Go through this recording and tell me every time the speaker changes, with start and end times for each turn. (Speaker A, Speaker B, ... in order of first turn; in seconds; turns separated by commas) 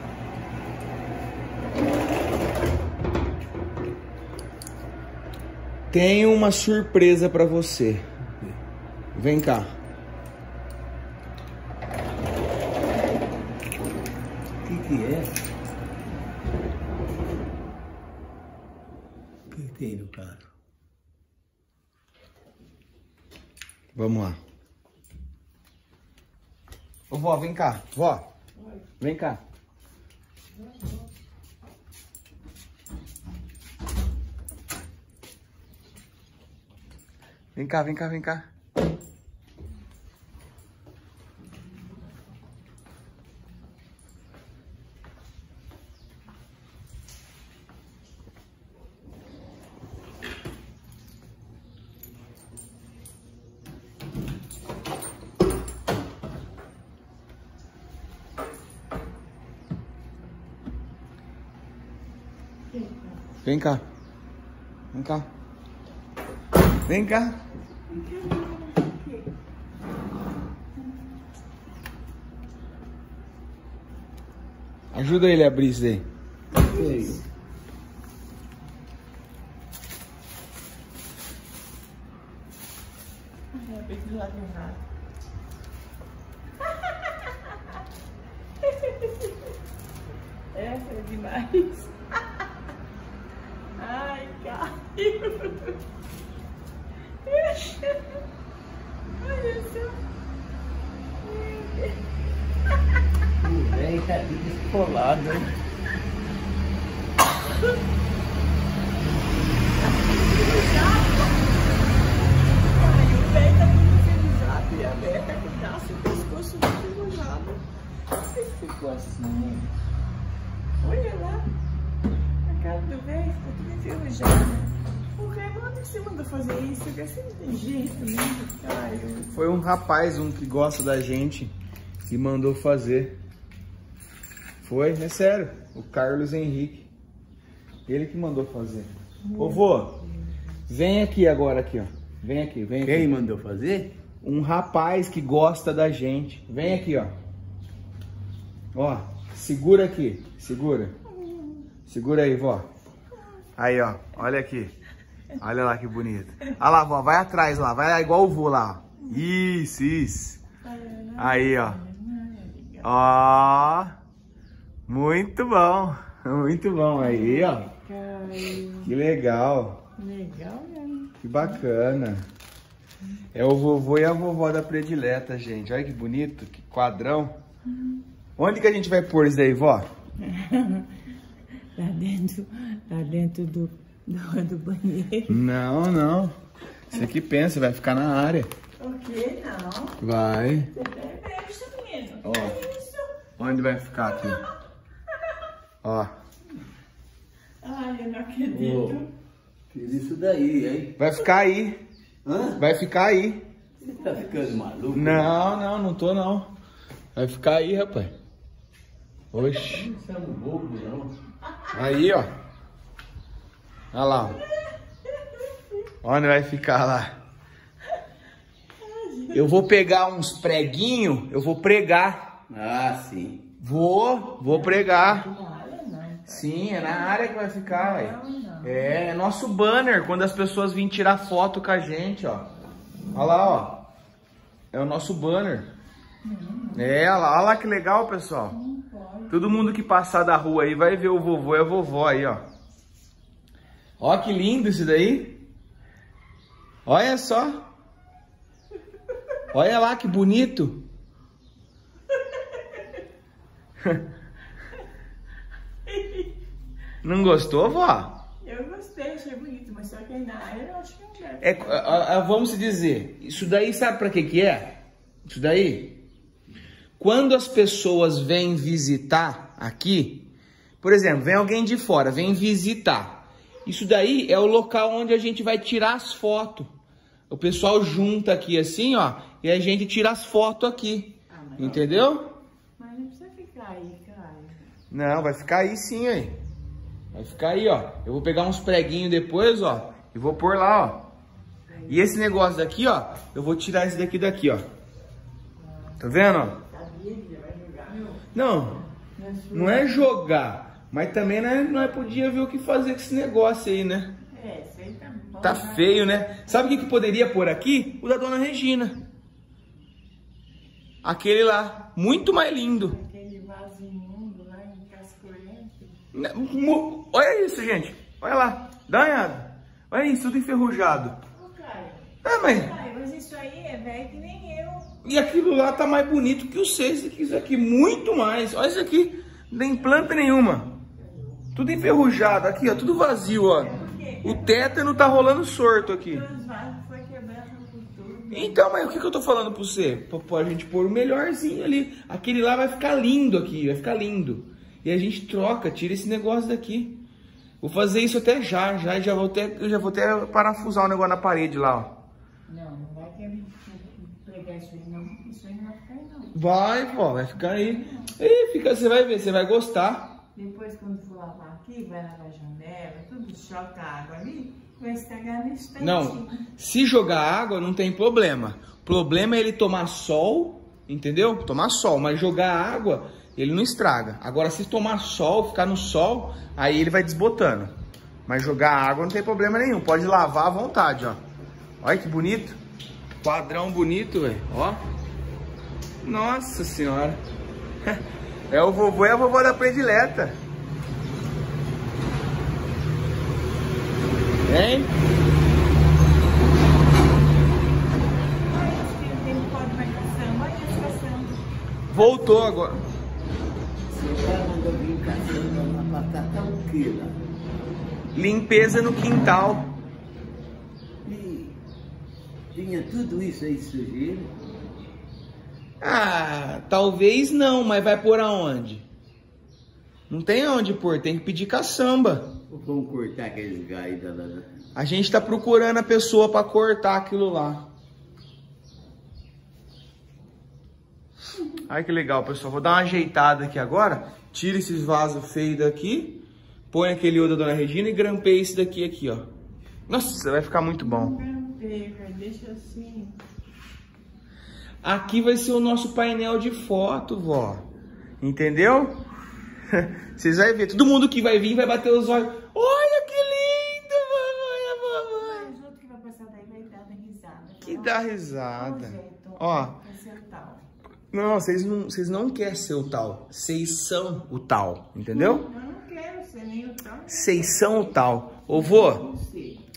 Speaker A: 5.9-8.1, Speaker A: 9.2-9.7, Speaker B: 14.6-15.4, Speaker B: 19.5-20.4, Speaker A: 23.9-24.4, Speaker A: 27.1-28.3, Speaker A: 29.0-29.4, Speaker A: 37.5-38.5, Speaker C: 62.7-63.2, Speaker A: 63.4-63.8, Speaker A: 64.9-65.3, Speaker A: 66.9-67.4, Speaker C: 67.9-69.3, Speaker A: 74.9-76.1, Speaker C: 76.6-77.2, Speaker B: 76.6-77.2, Speaker C: 83.5-84.8, Speaker C: 86.9-87.5, Speaker C: 88.6-89.5, Speaker C: 90.5-92.4, Speaker C: 93.8-95.8, Speaker C: 97.2-98.2, Speaker C: 99.2-100.0, Speaker C: 101.2-102.0, Speaker B: 103.4-105.5, Speaker C: 109.8-111.5, Speaker C: 112.6-117.6, Speaker C: 118.2-119.7, Speaker C: 120.8-121.5, Speaker C: 122.5-129.3, Speaker A: 129.3-131.5, Speaker A: 132.1-133.2, Speaker A: 134.6-136.9, Speaker A: 137.9-140.0, Speaker C: 139.3-139.9, Speaker A: 140.7-143.1, Speaker B: 142.9-143.9, Speaker A: 144.2-147.1, Speaker A: 148.8-150.9, Speaker C: 151.2-151.6, Speaker A: 151.9-152.7, Speaker A: 153.6-154.7, Speaker A: 155.4-160.4, Speaker C: 160.6-163.0, Speaker A: 161.2-161.8, Speaker A: 162.8-163.9, Speaker A: 164.9-167.7, Speaker C: 167.0-168.9, Speaker A: 168.8-169.8, Speaker C: 170.0-171.6, Speaker A: 171.2-172.3, Speaker A: 173.3-177.3, Speaker A: 178.4-179.9, Speaker C: 180.2-180.9, Speaker C: 181.8-185.4, Speaker A: 185.3-186.3, Speaker A: 186.9-188.5, Speaker C: 188.8-190.0, Speaker A: 190.0-190.7, Speaker C: 190.7-193.1, Speaker A: 192.2-192.6, Speaker A: 193.4-194.4, Speaker A: 195.8-196.1, Speaker C: 197.6-199.1, Speaker B: 198.5-199.0, Speaker B: 199.7-200.9, Speaker A: 201.0-201.8, Speaker B: 202.2-202.6, Speaker A: 202.6-203.4, Speaker B: 203.8-205.3, Speaker C: 203.9-204.2, Speaker A: 204.9-206.5, Speaker A: 207.2-208.1, Speaker A: 209.3-209.9, Speaker B: 209.7-211.1, Speaker A: 211.7-212.3, Speaker A: 213.9-214.4, Speaker C: 215.2-215.5, Speaker A: 216.0-217.2, Speaker C: 218.8-219.4, Speaker A: 219.3-222.3, Speaker B: 222.5-223.4, Speaker A: 223.6-225.3, Speaker C: 224.5-228.9, Speaker A: 226.3-232.5, Speaker A: 233.1-233.8, Speaker A: 234.7-235.7, Speaker C: 236.2-236.9, Speaker A: 236.7-238.6, Speaker C: 238.5-239.4, Speaker A: 239.3-242.4, Speaker A: 244.0-245.4, Speaker A: 246.9-247.6, Speaker A: 249.5-250.8, Speaker C: 252.3-252.8, Speaker C: 255.8-256.4, Speaker A: 257.0-258.2, Speaker C: 258.4-262.1, Speaker A: 261.4-266.0, Speaker A: 267.0-270.3, Speaker A: 270.8-276.7, Speaker A: 277.3-282.3, Speaker C: 281.3-282.1, Speaker C: 282.8-284.6, Speaker A: 284.9-286.4, Speaker A: 287.1-291.1, Speaker A: 291.9-294.6, Speaker C: 295.6-298.3, Speaker A: 296.0-296.6, Speaker A: 298.3-298.9, Speaker C: 299.1-300.1, Speaker A: 299.5-304.2, Speaker C: 304.3-306.9, Speaker A: 305.4-309.0, Speaker A: 311.0-313.0, Speaker C: 312.7-316.0, Speaker A: 316.1-321.2, Speaker C: 321.3-324.9, Speaker A: 322.2-322.8, Speaker A: 325.0-330.7, Speaker C: 331.0-331.4, Speaker A: 331.5-336.2, Speaker C: 333.6-338.7, Speaker A: 338.3-347.0, Speaker A: 347.6-352.0, Speaker C: 352.5-356.4, Speaker A: 356.4-360.2, Speaker C: 357.4-358.1, Speaker C: 360.4-366.4, Speaker A: 365.8-377.7, Speaker A: 378.3-381.2, Speaker A: 381.8-382.6, Speaker A: 383.2-384.8, Speaker A: 386.0-387.2, Speaker A: 387.8-390.4, Speaker A: 394.5-394.9, Speaker C: 398.5-402.4, Speaker A: 401.9-402.8, Speaker B: 403.9-407.2, Speaker A: 408.1-409.8, Speaker B: 411.0-411.6, Speaker B: 412.5-414.3, Speaker A: 415.8-418.9, Speaker A: 420.1-422.4, Speaker B: 422.5-424.5, Speaker A: 424.8-427.7, Speaker A: 431.6-439.3, Speaker A: 439.9-441.2, Speaker C: 440.8-443.2, Speaker A: 444.8-447.6, Speaker A: 448.2-449.0, Speaker A: 449.7-455.5, Speaker C: 455.1-460.7, Speaker A: 457.6-459.8, Speaker A: 461.1-465.5, Speaker C: 465.1-467.9, Speaker A: 467.1-469.1, Speaker C: 468.5-469.6